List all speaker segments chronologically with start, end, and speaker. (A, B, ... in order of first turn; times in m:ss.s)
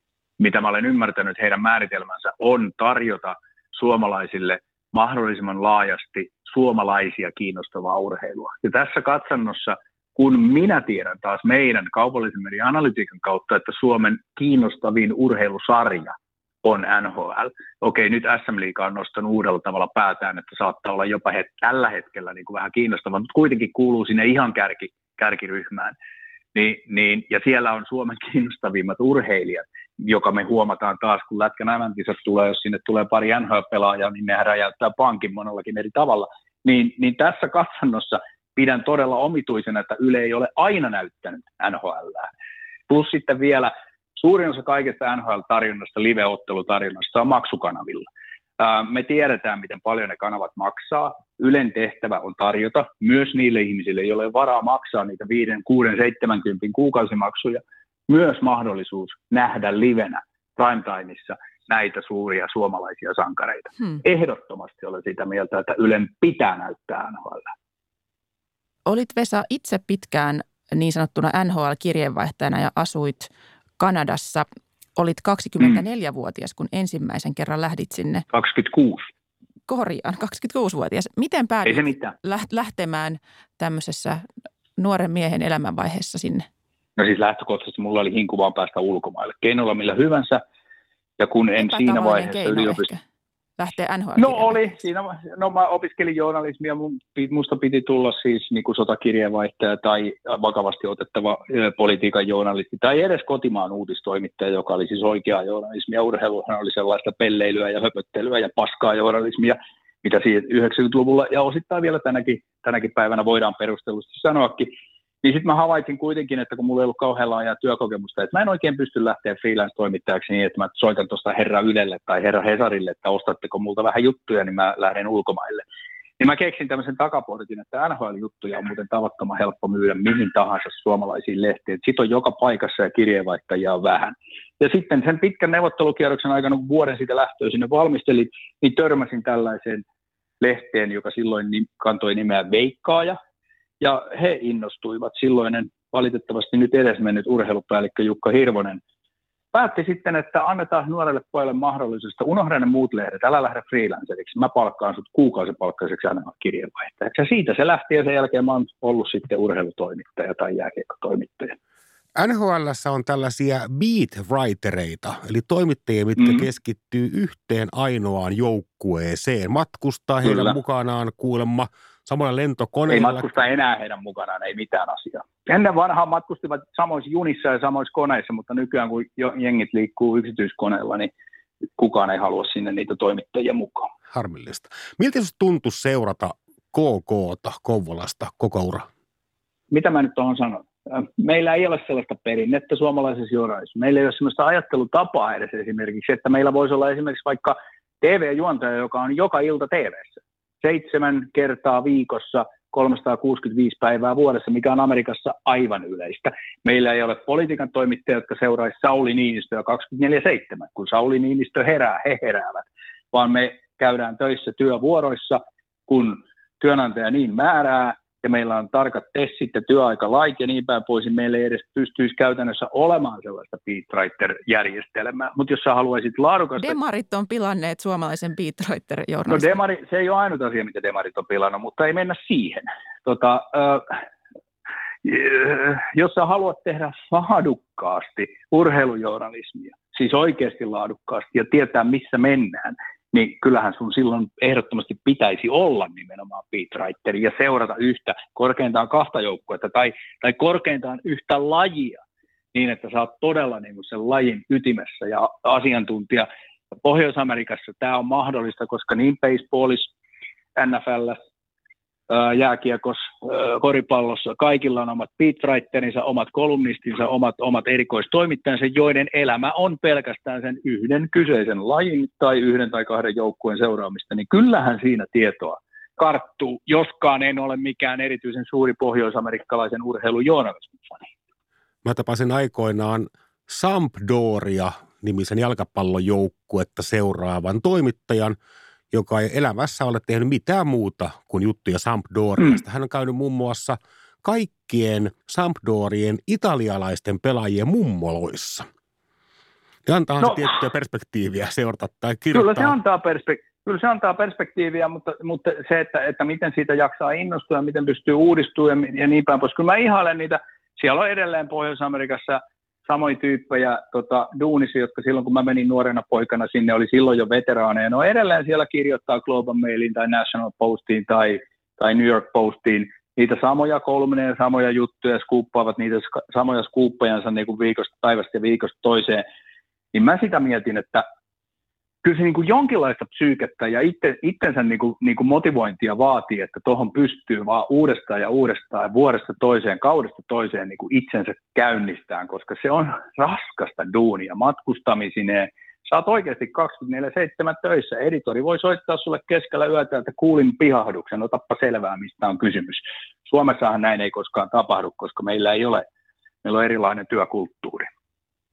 0:00.4-0:16.1 A
0:16.6-0:26.0 A
0:26.6-0:42.3 A
0:42.9-0:48.1 A
0:48.6-1:07.5 A
1:08.9-1:14.5 B
1:15.0-1:18.3 B
1:18.3-1:19.1 A
1:19.7-1:24.2 B
1:21.7-1:22.1 A
1:24.8-1:26.5 B
1:27.0-1:30.4 A
1:31.2-1:32.9 A
1:31.6-1:33.0 B
1:33.6-1:34.8 B
1:34.2-1:54.7 A
1:55.2-2:05.6 A
2:06.2-2:19.8 A
2:20.4-2:23.2 A
2:23.8-2:28.8 A
2:29.5-2:41.6 A
2:42.2-2:53.3 C
2:50.2-2:50.5 A
2:52.9-3:01.1 A
3:01.8-3:03.9 A
3:04.1-3:08.9 C
3:09.7-3:46.8 A
3:46.6-3:49.6 B
3:49.3-3:54.0 A
3:55.0-4:12.0 A
4:12.5-4:16.3 A
4:16.8-4:19.9 A
4:20.6-4:21.2 A
4:22.1-4:41.1 A
4:41.8-4:48.4 C
4:48.9-4:58.7 C
4:59.9-5:02.8 C
5:02.3-5:29.2 A
5:29.9-5:31.0 A
5:32.0-5:55.9 A
5:56.4-5:57.9 A